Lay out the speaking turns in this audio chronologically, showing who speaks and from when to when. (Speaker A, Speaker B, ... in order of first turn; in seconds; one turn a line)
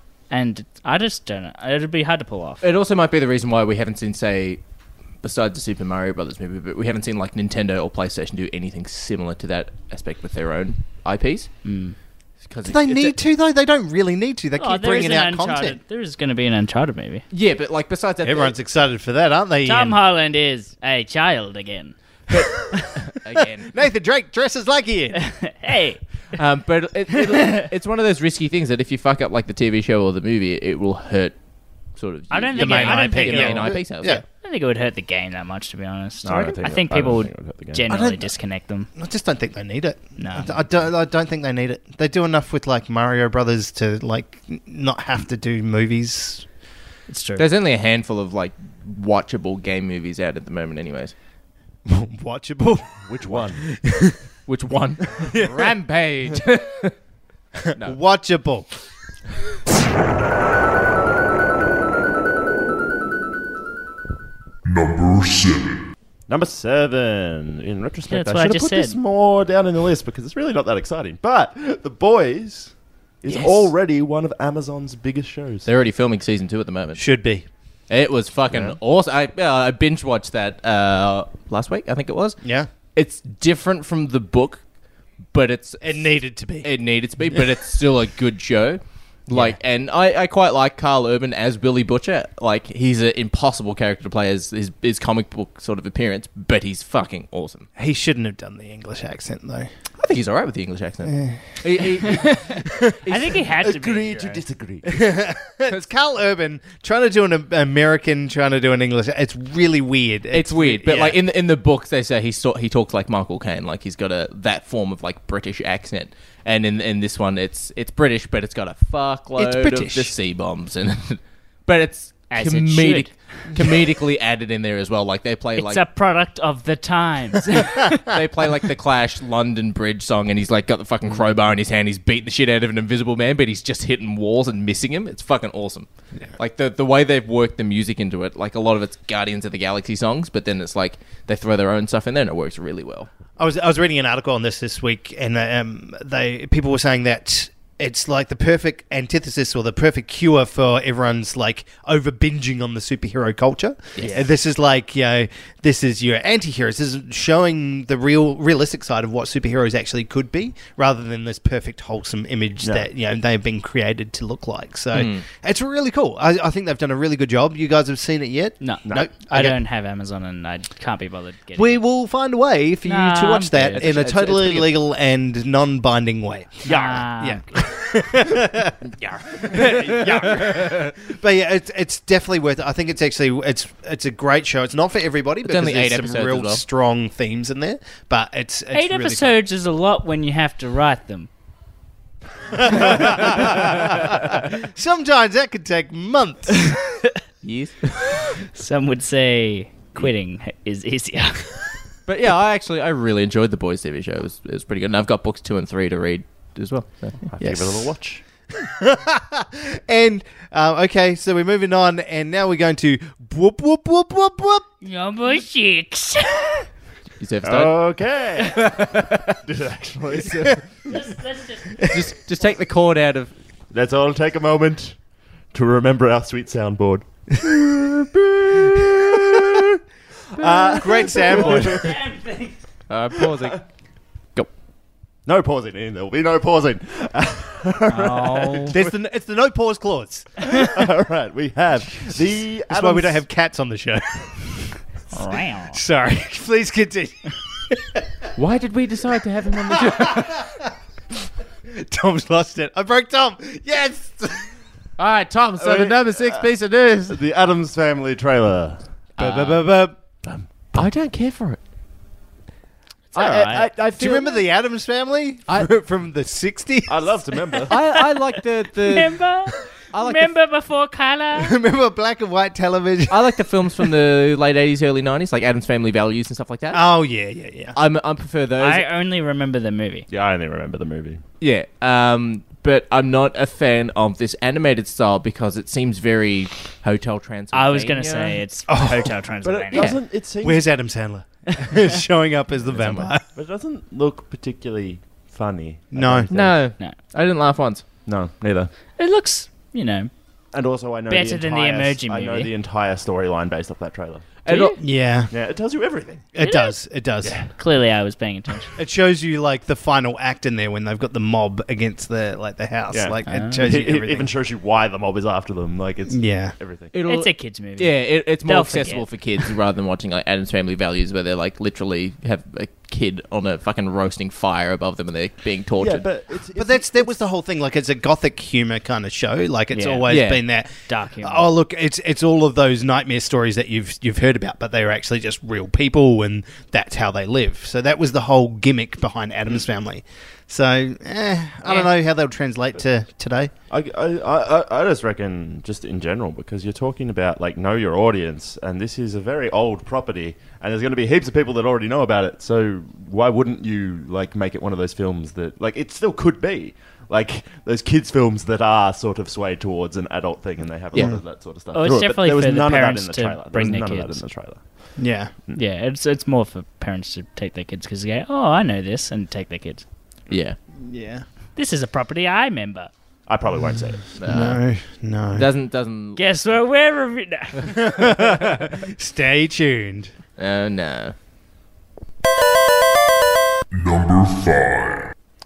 Speaker A: 0.3-2.6
Speaker B: 2.6-4.6
Speaker B: 5.2-11.5
Speaker A: 11.6-11.9
Speaker B: 12.4-13.1
Speaker C: 12.6-15.8
Speaker A: 14.6-17.2
Speaker B: 17.3-18.5
Speaker C: 18.2-20.0
Speaker A: 19.6-21.9
Speaker B: 22.3-23.7
Speaker C: 23.7-25.2
Speaker A: 25.1-26.0
Speaker B: 26.3-31.4
Speaker B: 31.9-34.2
Speaker A: 32.3-38.9
Speaker C: 32.5-34.2
Speaker D: 36.2-37.9
Speaker C: 37.9-38.3
Speaker C: 38.9-46.5
Speaker A: 40.2-40.6
Speaker A: 47.1-47.5
Speaker B: 47.4-51.1
Speaker C: 51.9-54.2
Speaker D: 53.0-53.6
Speaker B: 54.5-56.9
Speaker C: 55.2-55.7
Speaker B: 57.7-58.0
Speaker C: 57.8-58.7
Speaker E: 64.6-65.8
Speaker D: 66.3-75.7
Speaker A: 68.1-69.0
Speaker B: 73.3-73.7
Speaker B: 75.7-77.1
Speaker C: 77.0-77.5
Speaker B: 77.9-82.4
Speaker D: 78.5-78.8
Speaker C: 82.4-82.7
Speaker B: 82.9-84.6
Speaker B: 85.3-97.7
Speaker C: 85.8-86.7
Speaker C: 89.3-89.6
Speaker C: 97.8-99.7
Speaker B: 100.0-103.5
Speaker C: 101.0-102.8
Speaker A: 103.1-104.4
Speaker D: 103.6-105.1
Speaker C: 104.8-111.2
Speaker B: 110.3-125.8
Speaker C: 119.4-120.1
Speaker A: 122.3-123.1
Speaker A: 125.6-128.0
Speaker B: 127.9-143.1
Speaker C: 143.4-169.6
Speaker B: 154.0-154.2
Speaker B: 164.9-165.2
Speaker A: 168.6-171.8
Speaker C: 171.6-178.8
Speaker A: 172.8-173.9
Speaker B: 173.6-174.7
Speaker A: 176.6-177.4
Speaker B: 176.7-177.0
Speaker B: 178.8-180.9
Speaker C: 179.3-189.3
Speaker B: 185.4-186.6
Speaker A: 188.7-191.3
Speaker C: 192.5-196.8
Speaker B: 197.4-197.9
Speaker A: 198.3-201.6
Speaker B: 202.1-207.3
Speaker D: 207.3-208.2
Speaker C: 208.6-214.7
Speaker A: 214.8-216.7
Speaker B: 217.2-217.8
Speaker D: 217.4-220.9
Speaker B: 218.4-219.3
Speaker A: 220.8-221.8
Speaker B: 221.8-223.3
Speaker D: 223.7-225.0
Speaker D: 225.5-229.7
Speaker C: 229.0-229.6
Speaker C: 230.3-232.0
Speaker D: 230.4-231.9
Speaker A: 231.1-232.6
Speaker B: 232.9-233.6
Speaker D: 235.2-238.9
Speaker A: 237.9-238.8
Speaker C: 238.7-240.4
Speaker D: 240.4-243.2
Speaker C: 242.7-244.8
Speaker A: 245.1-245.8
Speaker C: 245.7-248.3
Speaker B: 248.3-250.4
Speaker C: 249.7-250.7
Speaker C: 251.7-254.5
Speaker B: 255.0-257.2
Speaker D: 255.6-256.5
Speaker D: 257.1-258.8
Speaker B: 259.2-259.7
Speaker C: 259.2-260.0
Speaker D: 260.2-260.8
Speaker B: 260.7-261.6
Speaker A: 263.1-263.7
Speaker B: 263.1-264.4
Speaker C: 263.9-267.7
Speaker D: 266.9-267.8
Speaker B: 267.7-269.2
Speaker A: 268.8-271.6
Speaker B: 269.9-270.3
Speaker C: 271.4-273.4
Speaker B: 273.1-276.8
Speaker C: 276.7-277.8
Speaker B: 277.7-278.9
Speaker A: 278.6-280.1
Speaker D: 280.1-281.2
Speaker B: 281.4-288.4
Speaker A: 287.5-289.9
Speaker C: 288.7-289.1
Speaker D: 289.4-290.7
Speaker B: 289.7-290.0
Speaker C: 290.4-293.2
Speaker B: 292.7-293.1
Speaker D: 293.3-296.6
Speaker C: 295.9-296.3
Speaker B: 296.3-297.8
Speaker D: 298.1-298.7
Speaker A: 299.0-300.1
Speaker D: 300.5-304.4
Speaker A: 301.1-302.5
Speaker B: 304.4-304.8
Speaker A: 304.5-304.8
Speaker C: 304.8-305.3
Speaker D: 305.3-306.3
Speaker C: 306.3-307.4
Speaker A: 306.4-306.8
Speaker D: 307.2-307.5
Speaker A: 307.5-308.7
Speaker C: 308.8-314.3
Speaker D: 312.9-316.9
Speaker A: 313.2-313.6
Speaker C: 316.1-316.5
Speaker B: 316.9-326.1
Speaker A: 317.1-319.1
Speaker D: 325.8-327.1
Speaker C: 326.5-343.5
Speaker A: 329.7-330.1
Speaker B: 330.1-330.4
Speaker A: 330.9-331.5
Speaker D: 343.7-364.9
Speaker C: 360.9-361.2
Speaker A: 361.7-364.2
Speaker C: 365.0-365.3
Speaker A: 365.5-369.8
Speaker B: 370.3-370.6
Speaker C: 370.8-371.2
Speaker A: 371.6-372.9
Speaker D: 373.3-374.0
Speaker B: 374.2-374.6
Speaker C: 374.2-375.4
Speaker B: 375.3-376.2
Speaker A: 376.1-378.2
Speaker C: 377.9-380.1
Speaker B: 380.4-381.1
Speaker E: 383.7-385.1